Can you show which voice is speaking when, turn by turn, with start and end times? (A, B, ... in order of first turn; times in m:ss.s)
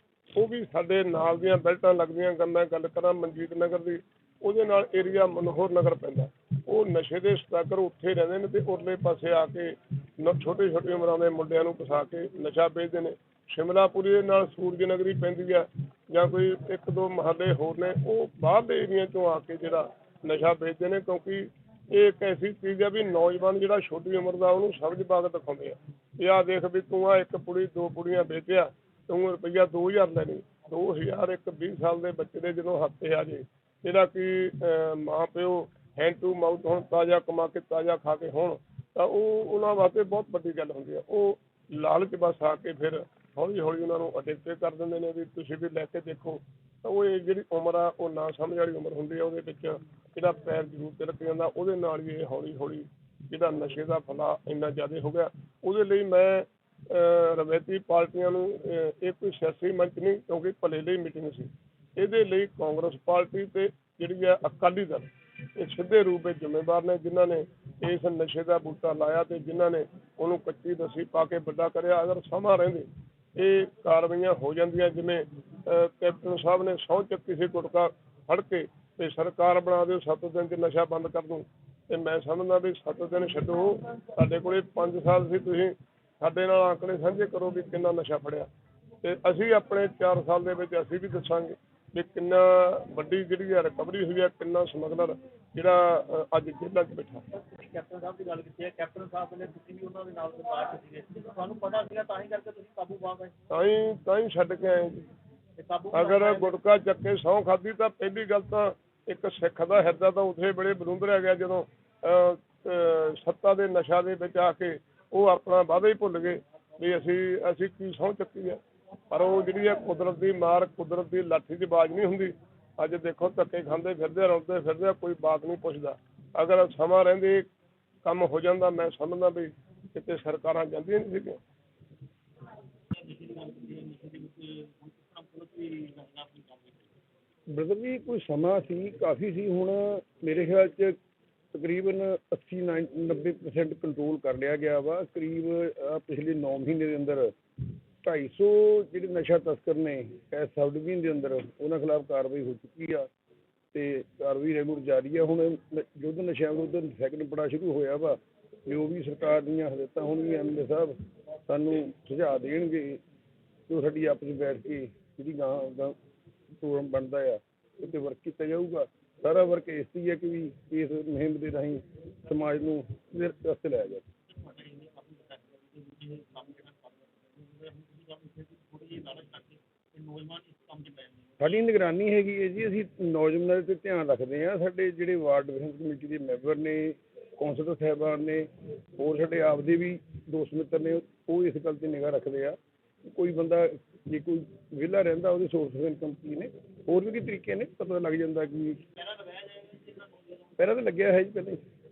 0:00.3-1:28.5 A
1:29.0-1:37.2 A
1:37.3-1:43.3 B
1:43.5-1:45.0 A
1:45.6-1:46.5 B
1:45.9-1:58.6 A
1:59.1-2:07.5 A
2:08.0-2:11.4 A
2:13.0-2:16.9 B
2:17.5-2:21.0 C
2:21.5-2:27.3 C
2:28.0-2:33.1 C
2:33.7-2:40.9 C
2:41.5-2:43.0 C
2:43.7-2:46.0 C
2:46.6-2:54.0 C
2:54.3-3:01.6 B
3:01.4-3:18.8 C
3:19.0-3:20.6 B
3:20.6-3:21.6 C